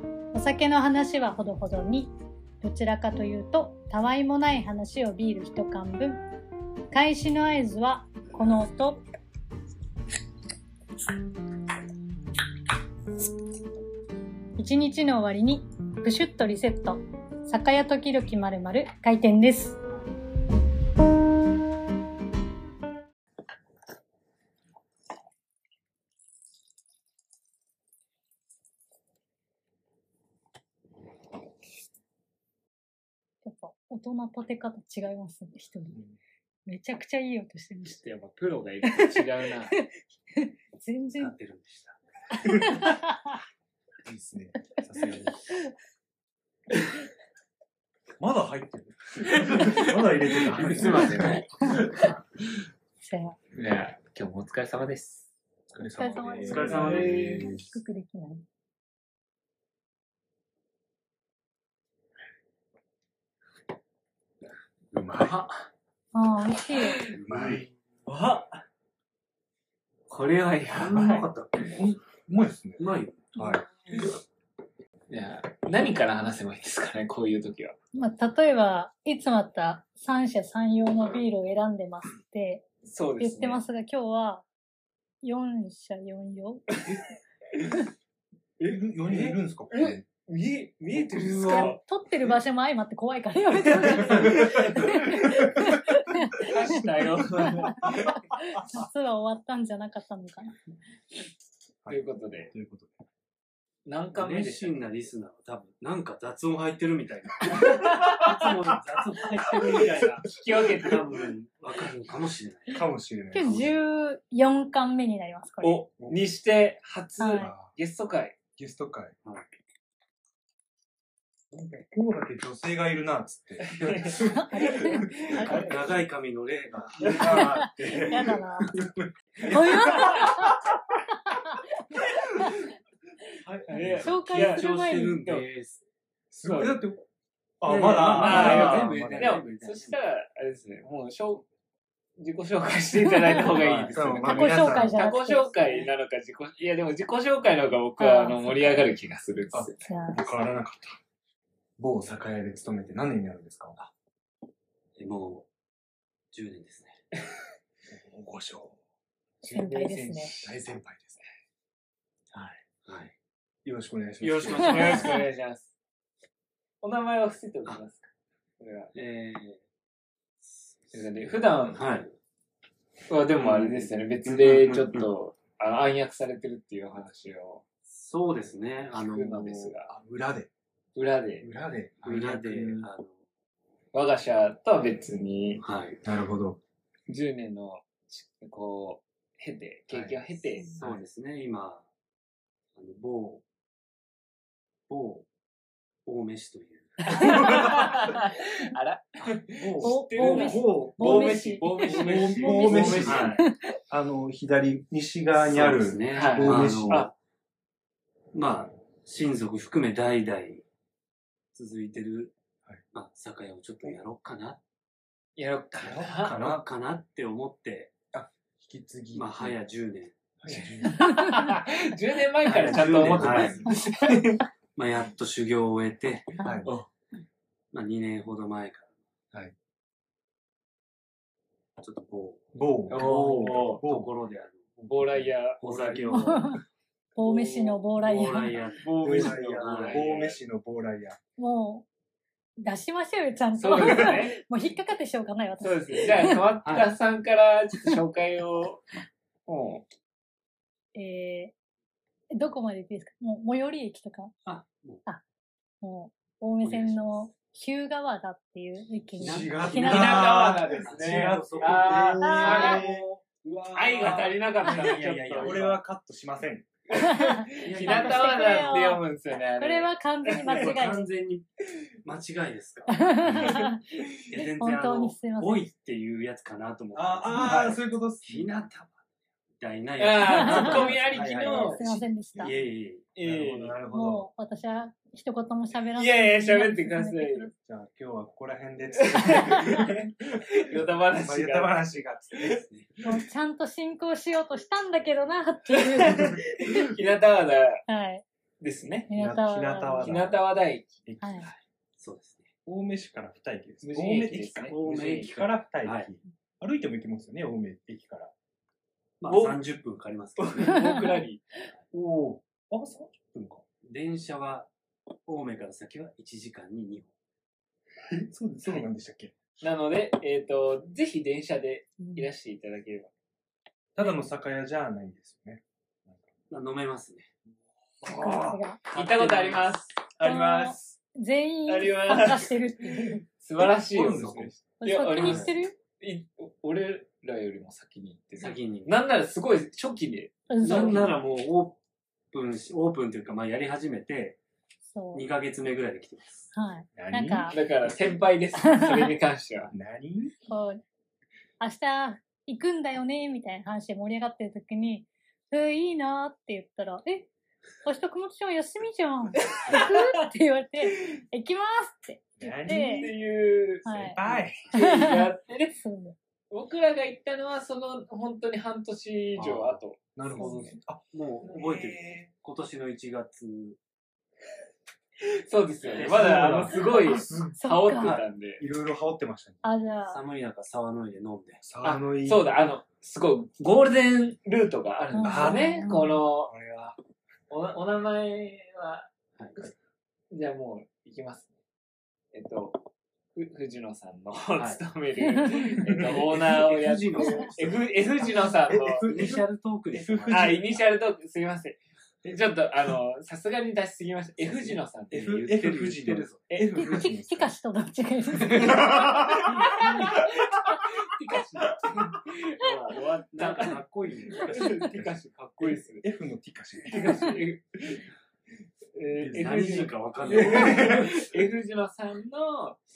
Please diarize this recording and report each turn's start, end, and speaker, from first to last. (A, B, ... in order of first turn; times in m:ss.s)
0:00.3-0:06.2 A
0:06.9-0:09.0 A
0:14.6-0:19.8 A
0:33.4-0:36.0 A
0:36.7-0:38.0 A
0:38.0-0:39.8 B
0:38.9-0:39.2 A
0:39.7-0:41.3 A
0:41.2-0:42.0 C
0:42.4-0:43.1 A
0:44.0-0:45.4 D
0:48.2-0:51.5 D
0:49.4-0:49.9 B
0:50.5-0:52.2 B
0:53.0-0:53.4 A
0:53.6-0:55.3 B
0:55.7-0:57.8 D
0:55.9-0:58.4 A
0:56.4-0:57.3 C
0:56.7-0:57.5 B
1:04.9-1:05.4 D
1:05.2-1:05.7 B
1:06.1-1:07.0 A
1:06.8-1:07.1 B
1:07.2-1:07.7 C
1:07.3-1:07.7 D
1:08.1-1:08.4 B
1:10.1-1:11.2 B
1:10.7-1:11.8 C
1:10.8-1:12.8 D
1:12.8-1:13.3 C
1:13.4-1:14.0 D
1:15.1-1:17.8 B
1:17.9-1:22.7 A
1:22.8-1:23.6 B
1:23.2-1:24.5 A
1:25.2-1:26.8 A
1:28.6-1:31.8 B
1:28.6-1:30.0 D
1:30.9-1:31.8 D
1:31.5-1:40.6 A
1:33.7-1:35.3 B
1:34.0-1:34.5 D
1:36.4-1:38.2 B
1:41.8-1:43.0 D
1:41.9-1:42.5 B
1:43.9-1:44.8 B
1:44.2-1:52.8 C
1:47.8-1:48.6 D
1:49.4-1:50.0 D
1:50.3-1:51.0 B
1:52.7-1:53.7 D
1:53.3-1:55.8 A
1:55.6-1:58.4 B
1:57.2-1:57.5 A
1:57.4-1:57.7 D
1:58.6-1:59.2 D
2:01.5-2:05.8 D
2:03.6-2:05.9 B
2:04.3-2:05.7 A
2:05.6-2:07.7 C
2:06.8-2:10.6 D
2:07.0-2:07.3 B
2:07.4-2:08.7 A
2:09.4-2:10.6 A
2:13.4-2:14.2 D
2:13.7-2:15.5 B
2:13.9-2:15.2 A
2:13.9-2:15.8 C
2:16.3-2:17.0 D
2:16.4-2:16.8 B
2:17.6-2:19.3 D
2:17.6-2:20.0 C
2:18.2-2:21.4 B
2:22.2-2:29.9 B
2:23.1-2:23.4 A
2:23.4-2:24.0 C
2:23.9-2:25.0 D
2:24.2-2:25.9 A
2:28.0-2:28.8 A
2:29.5-2:31.0 D
2:29.8-2:30.3 A
2:31.8-2:33.8 D
2:35.0-2:35.5 C
2:36.3-2:37.0 C
2:37.9-2:38.8 D
2:39.4-2:40.3 A
2:39.5-2:40.6 B
2:40.4-2:41.2 D
2:42.3-2:42.6 B
2:42.8-2:43.1 C
2:43.6-2:45.2 D
2:44.2-2:45.7 B
2:44.7-2:45.2 A
2:46.8-2:48.1 B
2:48.6-2:48.9 B
2:49.0-2:49.6 C
2:50.4-2:51.0 C
2:50.9-2:51.8 B
2:51.7-2:52.1 C
2:53.1-2:57.6 B
2:53.4-2:55.1 C
2:57.9-2:59.8 C
2:58.9-2:59.9 B
2:59.9-3:00.5 D
3:01.0-3:01.5 B
3:01.4-3:02.9 D
3:02.0-3:03.1 C
3:03.9-3:05.6 B
3:05.6-3:06.0 C
3:06.0-3:06.6 D
3:07.1-3:10.7 B
3:09.9-3:11.0 D
3:10.8-3:11.9 C
3:12.8-3:13.4 C
3:14.9-3:15.3 C
3:16.1-3:17.5 C
3:17.1-3:23.5 B
3:17.2-3:18.0 D
3:19.6-3:27.1 D
3:19.8-3:23.5 A
3:22.8-3:23.4 C
3:25.4-3:27.1 C
3:26.1-3:27.1 B
3:28.3-3:30.6 C
3:31.5-3:32.4 C
3:32.9-3:34.6 C
3:35.4-3:36.4 B
3:35.8-3:36.6 D
3:36.2-3:37.9 C
3:38.1-3:39.6 D
3:39.1-3:40.2 C
3:40.4-3:41.1 D
3:40.5-3:44.4 B
3:42.4-3:43.8 C
3:42.6-3:43.8 D
3:44.8-3:46.3 C
3:46.4-3:46.8 D
3:47.7-3:48.9 C
3:51.8-3:54.7 C
3:52.5-3:54.1 D
3:52.9-3:53.8 B
3:54.8-3:56.6 D
3:54.9-3:56.3 B
3:55.6-3:56.6 C
3:56.1-3:56.6 A
3:57.2-3:58.6 A
3:57.2-3:57.8 B
3:58.0-4:00.2 C
3:58.8-4:00.4 B
3:59.0-4:01.2 D
4:01.4-4:01.9 A
4:02.6-4:06.4 A
4:03.6-4:04.4 B
4:05.6-4:08.8 B
4:06.6-4:06.9 C
4:09.5-4:09.8 B
4:11.0-4:11.5 A
4:12.3-4:14.3 A
4:14.4-4:15.0 C
4:15.8-4:20.3 A
4:16.6-4:17.2 C
4:19.2-4:23.2 C
4:19.2-4:26.7 D
4:19.9-4:22.8 B
4:22.2-4:22.8 A
4:23.7-4:25.7 B
4:24.0-4:25.8 C
4:26.9-4:30.5 B
4:27.0-4:29.0 A
4:27.6-4:28.8 C
4:29.6-4:31.1 A
4:30.4-4:31.5 C
4:32.0-4:33.6 C
4:32.9-4:33.8 A
4:34.3-4:39.0 C
4:34.4-4:35.7 A
4:36.9-4:38.5 D
4:37.3-4:37.8 B
4:39.6-4:41.3 C
4:40.0-4:41.8 B
4:40.3-4:40.9 A
4:41.1-4:42.0 D
4:41.6-4:42.5 A
4:42.0-4:43.1 C
4:43.2-4:43.8 B
4:43.2-4:44.3 D
4:43.9-4:47.5 A
4:46.0-4:47.5 B
4:47.6-4:50.4 D
4:49.0-4:51.8 B
4:51.2-4:52.6 D
4:52.4-4:52.6 B
4:53.0-4:56.6 A
4:56.0-4:57.8 B
4:56.1-4:56.4 D
4:57.9-4:58.2 A
4:58.6-4:59.1 B
4:59.1-5:00.2 A
4:59.1-5:00.4 D
5:00.0-5:01.0 B
5:01.1-5:01.5 D
5:01.4-5:02.5 C
5:02.7-5:08.3 D
5:03.8-5:05.3 B
5:04.6-5:06.1 C
5:09.2-5:10.8 C
5:09.3-5:09.6 B
5:10.4-5:11.5 B
5:11.9-5:13.6 D
5:13.8-5:14.7 C
5:15.3-5:17.1 C
5:18.1-5:19.3 D
5:19.6-5:23.1 B
5:22.0-5:22.3 A
5:24.0-5:26.2 D
5:26.5-5:27.3 C
5:28.0-5:28.8 D
5:28.0-5:28.8 A
5:28.9-5:29.8 C
5:28.9-5:30.0 B
5:30.2-5:31.0 D
5:30.2-5:33.2 A
5:31.7-5:41.1 B
5:33.9-5:34.6 D
5:34.1-5:34.4 C
5:34.8-5:35.8 A
5:35.2-5:35.5 C
5:38.4-5:38.9 C
5:40.5-5:41.1 A
5:40.6-5:41.8 C
5:42.3-5:44.4 C
5:44.9-5:45.3 A
5:45.1-5:46.5 C
5:46.5-5:47.6 A
5:47.0-5:47.6 D
5:47.5-5:49.7 B
5:48.7-5:49.1 A
5:49.7-5:50.3 D
5:50.5-5:50.8 A
5:51.6-5:57.3 A
5:57.8-6:03.1 A
5:59.6-6:00.0 B
6:02.4-6:03.1 D
6:02.7-6:05.8 B
6:03.8-6:04.2 A
6:03.8-6:04.7 D
6:04.8-6:06.2 A
6:06.5-6:10.7 B
6:09.4-6:09.8 C
6:10.2-6:12.3 D
6:10.4-6:10.6 A
6:11.1-6:13.8 C
6:15.4-6:18.6 B
6:15.9-6:16.8 C
6:16.0-6:17.6 D
6:17.6-6:18.2 A
6:18.0-6:18.2 C
6:18.6-6:19.6 D
6:19.6-6:20.2 A
6:20.1-6:21.6 C
6:21.6-6:22.5 D
6:21.8-6:26.5 B
6:25.1-6:26.2 A
6:25.2-6:27.0 D
6:27.5-6:29.7 B
6:30.3-6:31.5 B
6:32.3-6:32.8 B
6:33.4-6:39.2 B
6:35.8-6:36.2 D
6:36.0-6:37.9 C
6:37.4-6:37.7 D
6:38.2-6:40.8 D
6:39.1-6:40.6 C
6:40.3-6:45.3 B
6:44.4-6:46.4 C
6:45.1-6:47.5 D
6:46.5-6:46.9 B
6:46.8-6:49.9 A
6:48.4-6:49.9 D
6:48.8-6:53.8 B
6:53.3-6:54.5 C
6:54.3-6:57.4 D
6:54.3-6:56.0 B
6:56.9-6:58.0 B
6:58.9-7:02.8 B
6:59.2-7:01.2 D
6:59.3-7:01.1 C